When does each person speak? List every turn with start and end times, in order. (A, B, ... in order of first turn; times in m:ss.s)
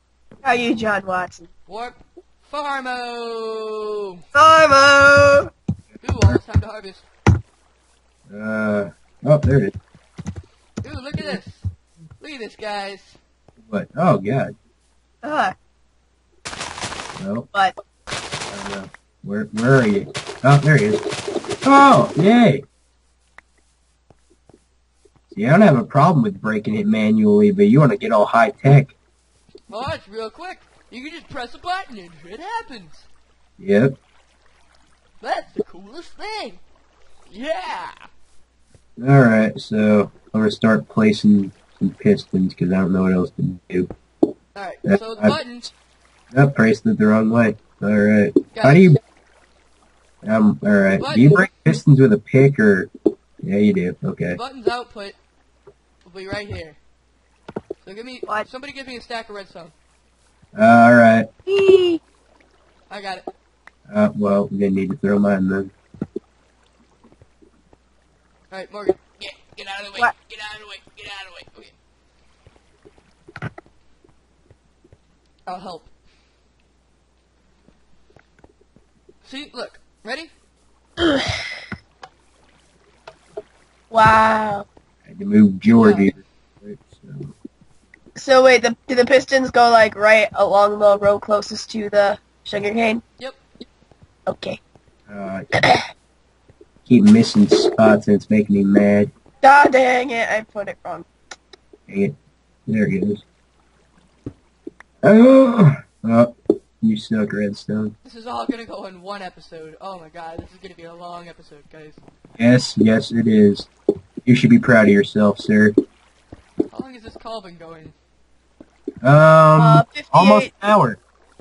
0:00.4-0:01.5 A
0:01.7-0:04.2 B
0:04.3-0:05.5 A
0:06.0-0:07.0 B
0:08.3-0:09.8 C
0:10.8-0:11.7 B
0:12.2-0:13.2 B
0:13.6-0:14.5 C
0:15.2-0:15.6 A
0:17.2-0:17.5 C
0:18.5-0:21.0 C
0:21.6-0:22.6 C
0:25.3-0:29.0 C
0:29.7-0:33.1 B
0:33.6-0:34.0 C
0:35.2-0:36.6 B
0:37.3-0:38.1 B
0:39.0-0:43.9 C
0:44.6-0:45.7 B
0:44.9-0:45.4 C
0:46.3-0:49.0 C
0:48.5-0:49.0 B
0:50.2-0:52.9 C
0:51.0-0:51.5 B
0:53.4-0:54.4 C
0:54.3-0:55.2 B
0:56.0-0:56.8 B
0:57.8-0:59.7 B
1:00.6-1:01.3 C
1:01.5-1:02.0 A
1:02.9-1:03.3 B
1:03.9-1:05.7 C
1:08.5-1:11.7 B
1:15.5-1:15.9 B
1:19.2-1:20.3 B
1:21.0-1:21.4 A
1:23.9-1:24.7 A
1:25.1-1:27.3 C
1:25.7-1:26.1 B
1:28.2-1:33.0 A
1:34.3-1:34.6 A
1:35.1-1:35.5 C
1:35.5-1:35.9 A
1:36.9-1:39.1 C
1:39.4-1:41.1 A
1:41.9-1:42.2 C
1:42.7-1:43.2 C
1:45.0-1:47.9 C
1:48.0-1:52.0 B
1:52.4-1:53.7 C
1:54.2-1:55.8 C
1:56.7-1:58.0 B
1:59.0-2:01.0 C
1:59.6-2:00.5 A